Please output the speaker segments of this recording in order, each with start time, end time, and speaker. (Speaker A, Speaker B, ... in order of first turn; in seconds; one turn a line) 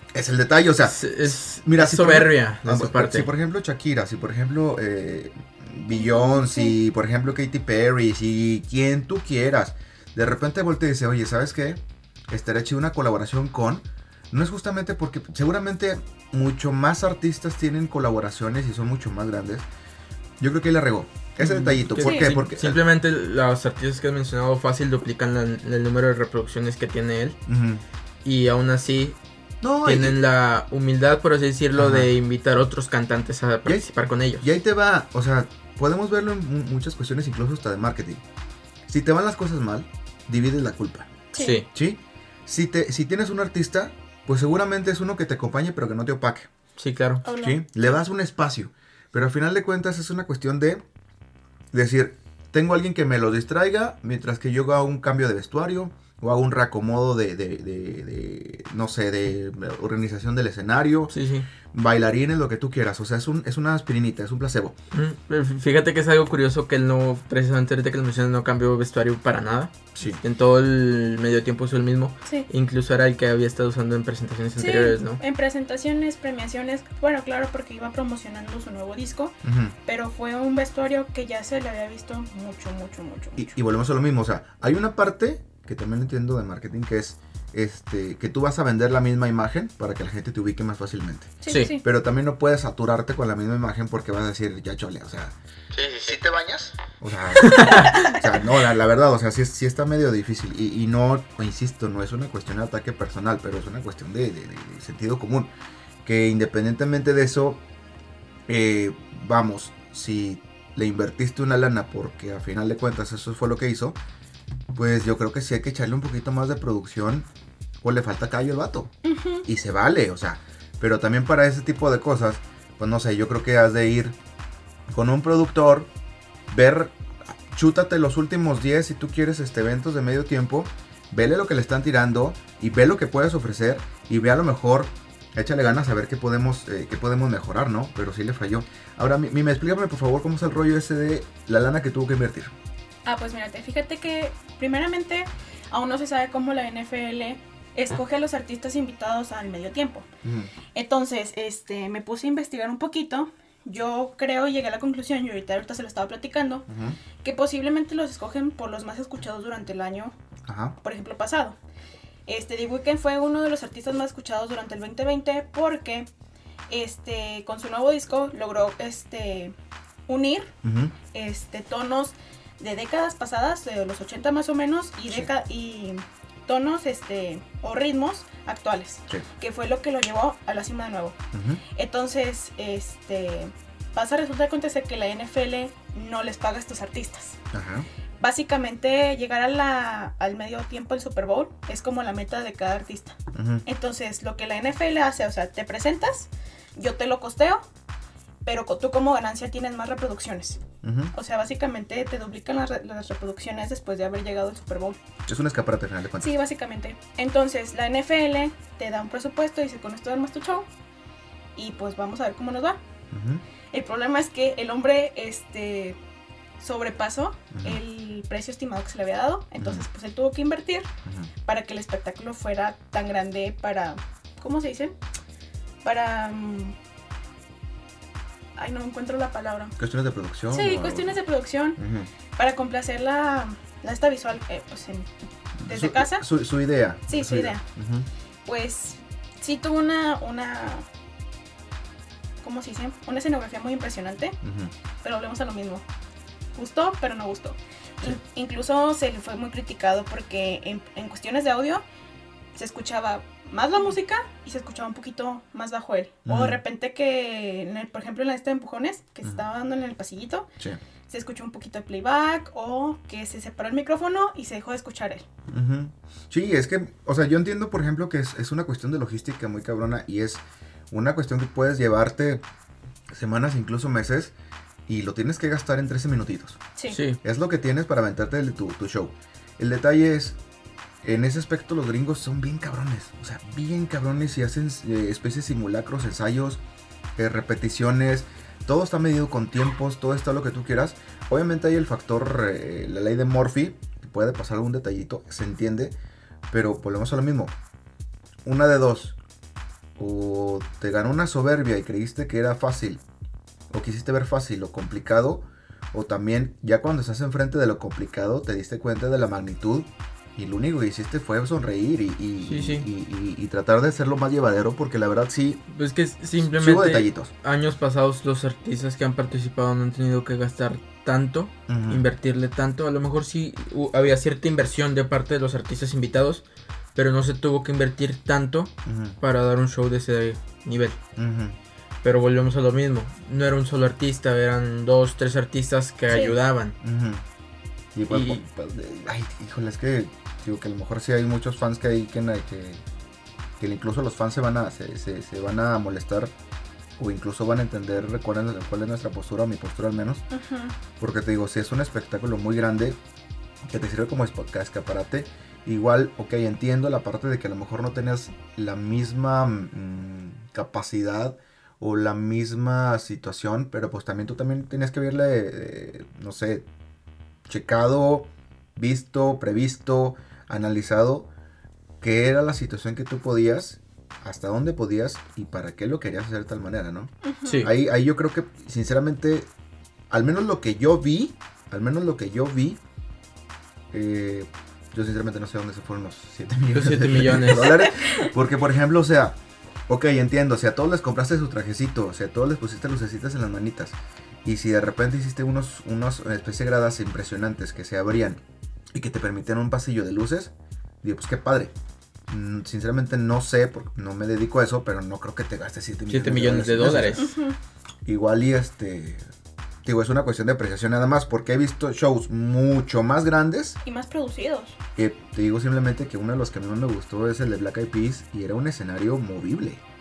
Speaker A: 0.1-19.7
Speaker B: 0.8-3.3
Speaker C: 5.9-6.8
Speaker A: 20.4-22.8
Speaker B: 21.4-27.4
Speaker C: 22.0-22.3
Speaker A: 27.4-27.8
Speaker B: 28.2-29.2
Speaker A: 29.6-30.2
Speaker B: 29.8-34.5
Speaker A: 31.8-32.1
Speaker A: 34.4-38.2
Speaker A: 38.9-41.1
Speaker C: 41.3-41.6
Speaker B: 41.4-41.7
Speaker A: 41.7-46.5
Speaker B: 46.8-47.2
Speaker C: 47.2-47.6
Speaker A: 47.4-50.8
Speaker A: 51.7-61.1
Speaker B: 61.1-61.5
Speaker A: 61.7-64.8
Speaker B: 64.9-75.2
Speaker A: 69.9-70.2
Speaker C: 74.6-83.5
Speaker A: 79.4-79.7
Speaker A: 83.3-95.3
Speaker C: 91.4-91.8
Speaker B: 91.5-91.7
Speaker B: 95.7-96.2
Speaker A: 96.0-105.5
Speaker B: 97.4-98.2
Speaker A: 106.0-107.6
Speaker A: 108.5-114.0
Speaker A: 114.7-117.3
Speaker A: 117.8-118.9
Speaker C: 119.0-119.5
Speaker A: 119.4-124.2
Speaker A: 124.9-125.9
Speaker A: 126.5-142.5
Speaker C: 143.1-150.1
Speaker A: 150.2-150.5
Speaker C: 150.7-156.7
Speaker A: 156.7-157.0
Speaker C: 157.2-160.2
Speaker A: 160.5-160.8
Speaker C: 160.8-161.6
Speaker C: 162.3-166.1
Speaker C: 166.7-169.5
Speaker C: 170.1-170.5
Speaker A: 170.6-170.9
Speaker C: 171.1-181.2
Speaker A: 181.3-181.6
Speaker C: 181.7-187.4
Speaker A: 187.5-187.9
Speaker C: 188.2-197.6
Speaker A: 193.3-193.6
Speaker C: 198.4-205.0
Speaker A: 200.8-201.1
Speaker A: 205.3-206.4
Speaker C: 206.2-210.7
Speaker C: 211.6-212.8
Speaker A: 213.1-213.4
Speaker C: 213.7-216.0
Speaker C: 216.6-220.9
Speaker A: 217.5-217.8
Speaker A: 219.6-219.8
Speaker A: 221.0-221.3
Speaker C: 221.4-224.9
Speaker C: 225.8-226.8
Speaker C: 228.6-229.7
Speaker A: 229.8-231.2
Speaker C: 230.5-231.8
Speaker A: 231.8-232.1
Speaker C: 232.4-235.1
Speaker A: 235.6-238.1
Speaker C: 235.7-236.2
Speaker C: 237.1-237.6
Speaker C: 238.4-240.8
Speaker C: 242.4-244.3
Speaker A: 244.4-244.7
Speaker C: 245.0-245.8
Speaker C: 246.5-251.8
Speaker C: 252.5-260.5
Speaker A: 256.2-256.6
Speaker C: 261.1-265.3
Speaker A: 265.5-272.4
Speaker A: 273.1-274.3
Speaker A: 274.9-276.6
Speaker B: 276.9-277.2
Speaker A: 277.2-280.4
Speaker A: 281.0-286.6
Speaker A: 287.2-295.9
Speaker A: 296.5-297.5
Speaker A: 298.4-299.2
Speaker A: 299.9-303.0
Speaker A: 303.7-315.6
Speaker B: 312.4-312.9
Speaker B: 315.7-326.4
Speaker A: 316.4-317.3
Speaker A: 321.7-322.0
Speaker B: 326.9-331.0
Speaker A: 328.9-329.2
Speaker A: 331.1-331.6
Speaker B: 332.0-336.8
Speaker C: 336.1-336.4
Speaker A: 336.8-337.2
Speaker A: 337.9-342.8
Speaker B: 338.1-338.4
Speaker A: 343.6-346.3
Speaker A: 347.0-350.2
Speaker C: 350.3-350.7
Speaker A: 351.0-353.0
Speaker A: 353.6-366.7
Speaker A: 367.5-371.3
Speaker A: 372.0-379.5
Speaker C: 377.2-377.7
Speaker B: 377.4-377.7
Speaker A: 380.1-382.8
Speaker A: 383.9-401.7
Speaker B: 386.7-387.8
Speaker A: 402.3-407.3
Speaker B: 406.1-407.2
Speaker C: 407.2-407.6
Speaker A: 408.0-409.2
Speaker A: 409.8-413.8
Speaker C: 413.8-414.8
Speaker A: 414.9-419.8